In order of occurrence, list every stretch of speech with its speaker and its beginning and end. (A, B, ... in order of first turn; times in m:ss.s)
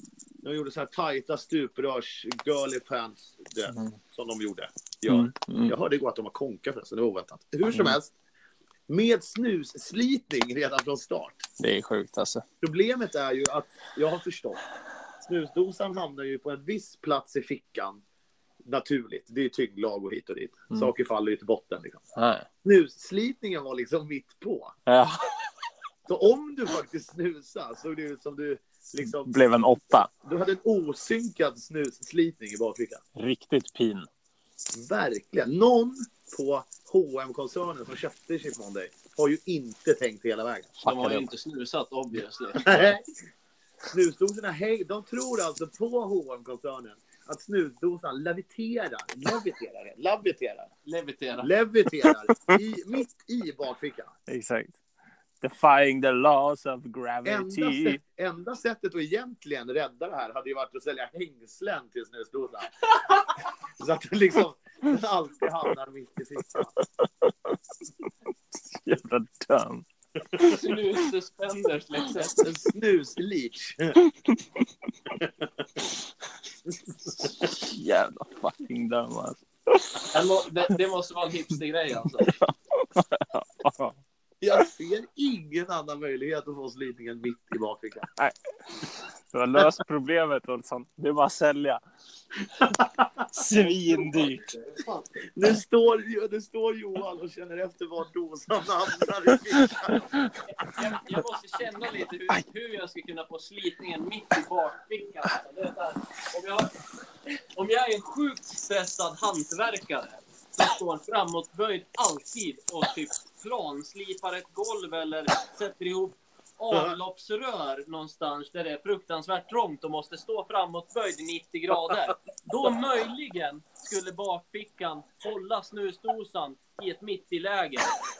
0:00.4-0:08.1 A
0:05.1-0:05.7 B
0:07.7-0:08.0 B
0:08.9-0:11.4 A
0:11.6-0:12.4 B
0:12.6-0:14.6 A
0:15.2-0:18.0 A
0:18.6-0:22.0 A
0:22.2-0:22.5 B
0:22.6-0:24.7 A
0:24.9-0:25.5 B
0:26.1-0:29.3 A
0:29.0-0:30.1 B
0:30.2-0:33.0 A
0:33.2-0:34.1 B
0:34.7-0:40.8 A
0:40.8-0:41.3 B
0:40.8-0:42.8 C
0:42.6-0:43.0 A
0:43.9-0:50.7 A
0:50.8-0:51.5 C
0:51.4-0:54.1 A
0:54.3-0:54.7 B
0:55.4-0:58.0 B
0:57.2-1:06.8 A
1:07.0-1:07.6 B
1:08.5-1:11.1 B
1:10.4-1:12.4 C
1:12.3-1:14.0 A
1:14.0-1:14.6 B
1:15.2-1:15.4 A
1:17.2-1:20.2 B
1:20.1-1:22.3 C
1:22.2-1:23.9 B
1:24.4-1:28.1 A
1:28.2-1:31.8 B
1:32.6-1:33.3 A
1:33.3-1:34.5 B
1:34.7-1:40.2 A
1:40.5-1:46.8 C
1:47.5-2:07.9 C